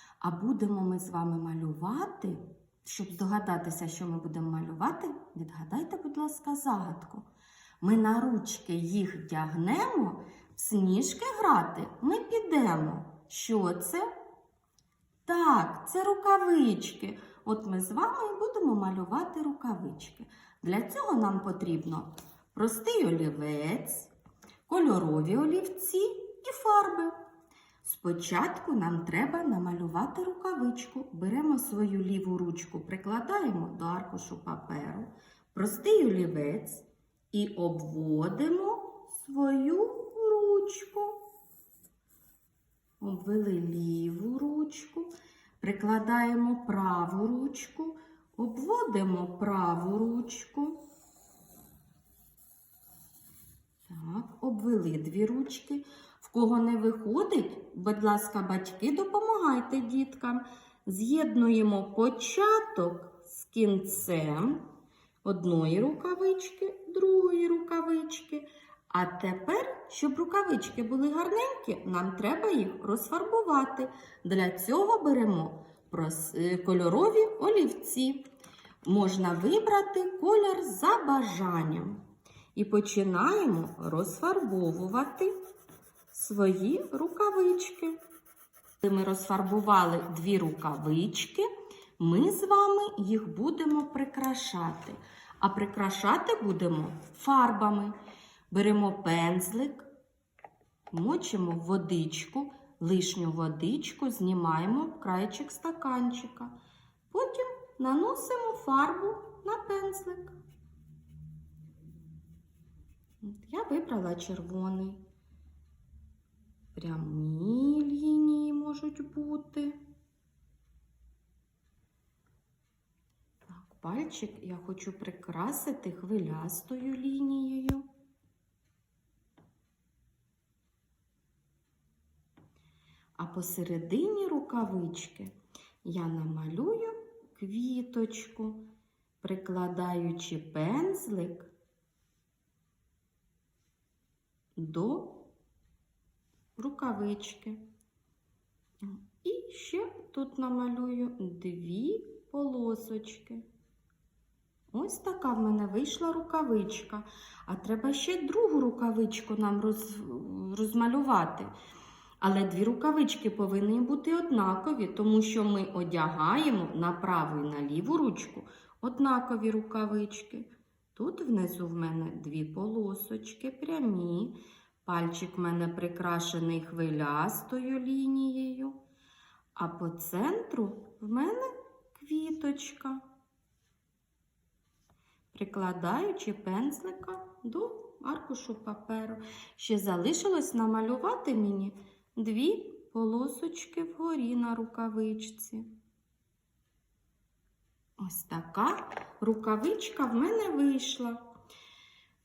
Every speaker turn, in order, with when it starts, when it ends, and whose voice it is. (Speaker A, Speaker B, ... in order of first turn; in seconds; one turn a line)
Speaker A: 0.2-7.3
Speaker A: 7.8-14.1
Speaker A: 15.3-24.1
Speaker A: 24.7-27.2
Speaker A: 27.8-41.3
Speaker A: 43.0-50.9
Speaker A: 53.9-64.7
Speaker A: 65.2-78.3
Speaker A: 78.8-82.0
Speaker A: 82.5-85.3
Speaker A: 86.1-88.0
Speaker A: 88.8-91.5
Speaker A: 92.0-98.0
Speaker A: 98.5-99.9
Speaker A: 100.9-106.6
Speaker A: 107.1-110.4
Speaker A: 113.2-115.0
Speaker A: 116.8-119.8
Speaker A: 123.5-127.9
Speaker A: 133.2-138.7
Speaker A: 139.2-141.5
Speaker A: 144.6-145.3
Speaker A: 146.6-147.6
Speaker A: 148.8-153.5
Speaker A: 154.7-161.5
Speaker A: 162.2-178.8
Speaker A: 179.6-183.0
Speaker A: 185.3-195.7
Speaker A: 198.0-201.3